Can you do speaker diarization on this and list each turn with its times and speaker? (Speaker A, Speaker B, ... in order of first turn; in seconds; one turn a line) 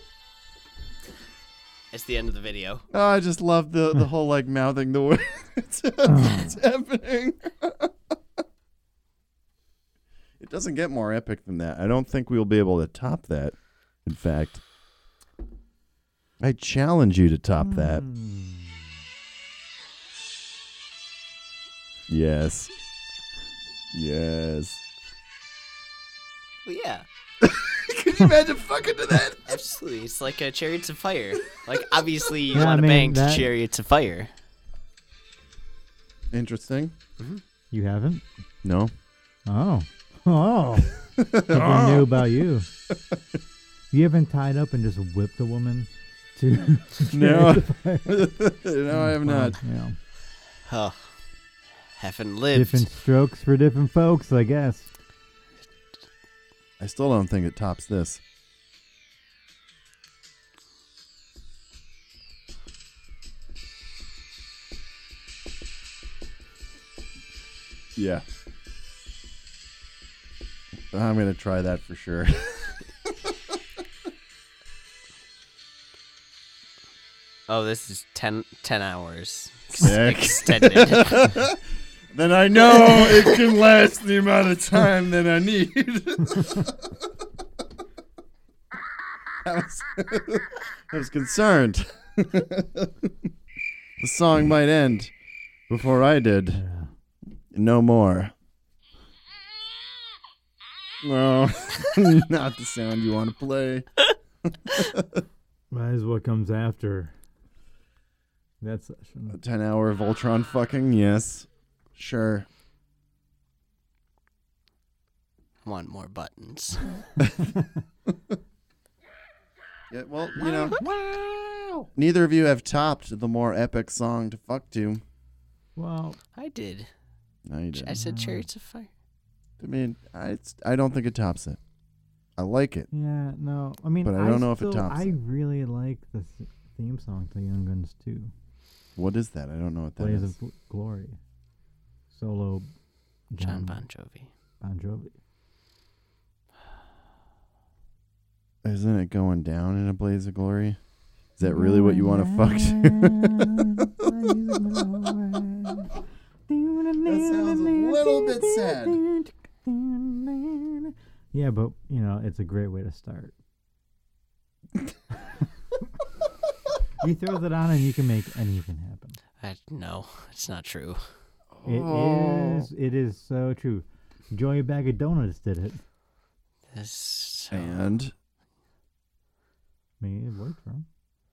Speaker A: 1.9-2.8
Speaker B: 2.9-7.9
Speaker C: 6.0-6.6
Speaker B: 10.4-14.6
Speaker B: 16.4-18.0
Speaker C: 17.6-18.9
Speaker B: 22.1-22.7
Speaker B: 23.9-24.8
Speaker A: 26.6-27.0
Speaker B: 27.4-29.5
Speaker A: 29.5-34.3
Speaker C: 32.5-33.5
Speaker B: 36.3-36.9
Speaker C: 37.7-38.2
Speaker B: 38.6-38.9
Speaker C: 39.5-42.7
Speaker B: 41.2-42.2
Speaker C: 43.9-48.3
Speaker B: 47.1-49.6
Speaker C: 48.9-50.0
Speaker A: 50.6-51.1
Speaker A: 51.9-52.9
Speaker C: 52.5-54.9
Speaker B: 56.8-58.2
Speaker B: 68.0-68.2
Speaker B: 70.9-73.6
Speaker A: 77.5-81.3
Speaker B: 79.7-81.6
Speaker B: 82.1-87.1
Speaker A: 82.8-83.1
Speaker B: 89.4-93.3
Speaker B: 94.0-95.1
Speaker B: 95.7-96.6
Speaker C: 96.5-96.9
Speaker B: 97.5-98.3
Speaker B: 101.0-105.2
Speaker C: 105.7-107.1
Speaker C: 108.6-109.4
Speaker B: 109.3-112.5
Speaker A: 115.6-116.9
Speaker B: 117.2-117.5
Speaker C: 117.5-117.8
Speaker B: 119.9-120.8
Speaker C: 120.4-121.9
Speaker B: 121.9-125.0
Speaker C: 125.8-126.2
Speaker A: 126.3-126.9
Speaker B: 127.5-128.0
Speaker A: 127.7-128.9
Speaker C: 127.9-128.4
Speaker B: 129.6-131.6
Speaker B: 132.4-132.9
Speaker C: 132.9-138.3
Speaker B: 134.0-135.1
Speaker B: 138.9-140.3
Speaker C: 140.0-141.2
Speaker C: 142.1-142.7
Speaker C: 143.3-143.8
Speaker A: 143.4-144.3
Speaker C: 144.6-145.1
Speaker B: 148.6-150.8
Speaker B: 151.4-153.7
Speaker C: 151.4-155.9
Speaker C: 156.5-163.3
Speaker B: 157.0-159.0
Speaker C: 167.0-169.2
Speaker A: 169.4-171.0
Speaker B: 171.5-172.7
Speaker C: 171.6-175.8
Speaker A: 176.7-177.8
Speaker B: 177.5-178.1
Speaker C: 180.0-180.8